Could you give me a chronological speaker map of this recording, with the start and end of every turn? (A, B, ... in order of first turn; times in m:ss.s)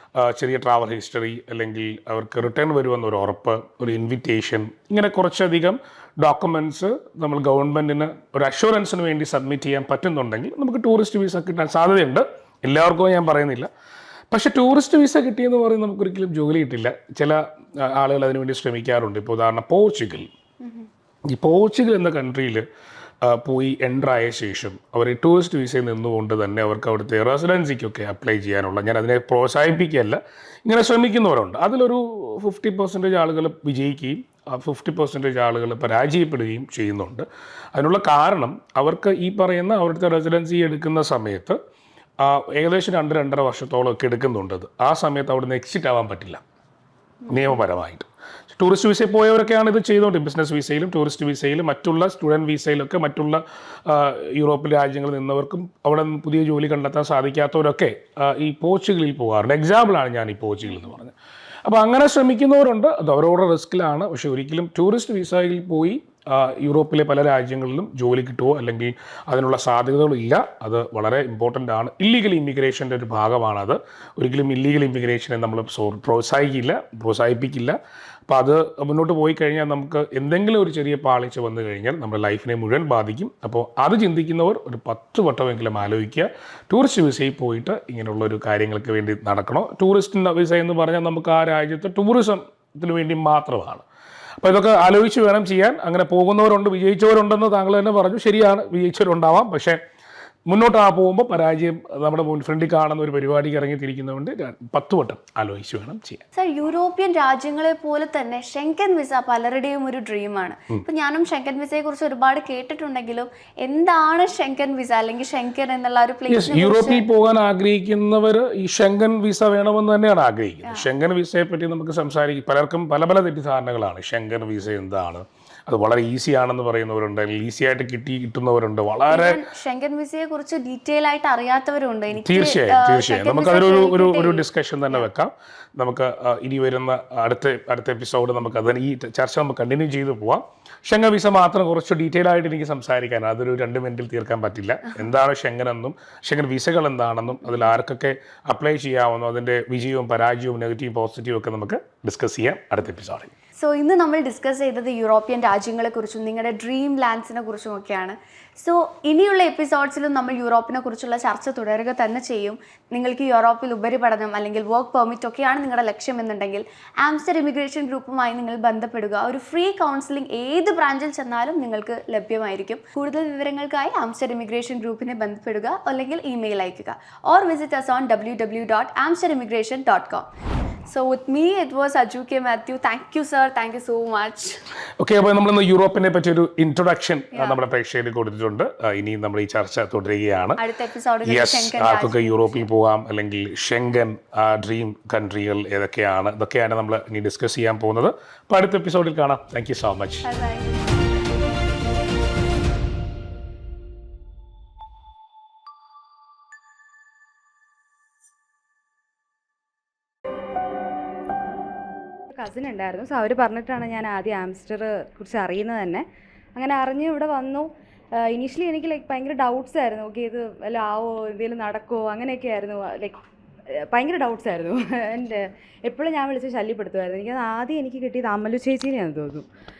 0:00.2-0:13.7 A
0:14.3-0:20.3 A
0:21.3-0:22.6 A
0:23.2-0:41.6 A
0:42.2-0:46.4 A
0:47.3-0:47.6 B
0:47.3-1:01.1 A
1:01.6-1:17.8 A
1:18.3-1:33.8 A
1:34.4-1:39.8 A
1:40.5-1:46.2 A
1:46.3-1:57.0 B
1:56.3-2:09.4 A
2:09.1-2:15.0 B
2:12.1-2:33.3 A
2:33.6-3:00.2 B
3:00.9-3:04.6 B
3:05.0-3:10.6 A
3:07.3-3:07.6 B
3:10.6-3:12.7 B
3:11.2-3:20.2 A
3:20.2-3:20.8 B
3:32.3-3:36.0 C
3:36.6-3:37.7 C
3:38.2-3:43.2 C
3:43.9-3:49.4 C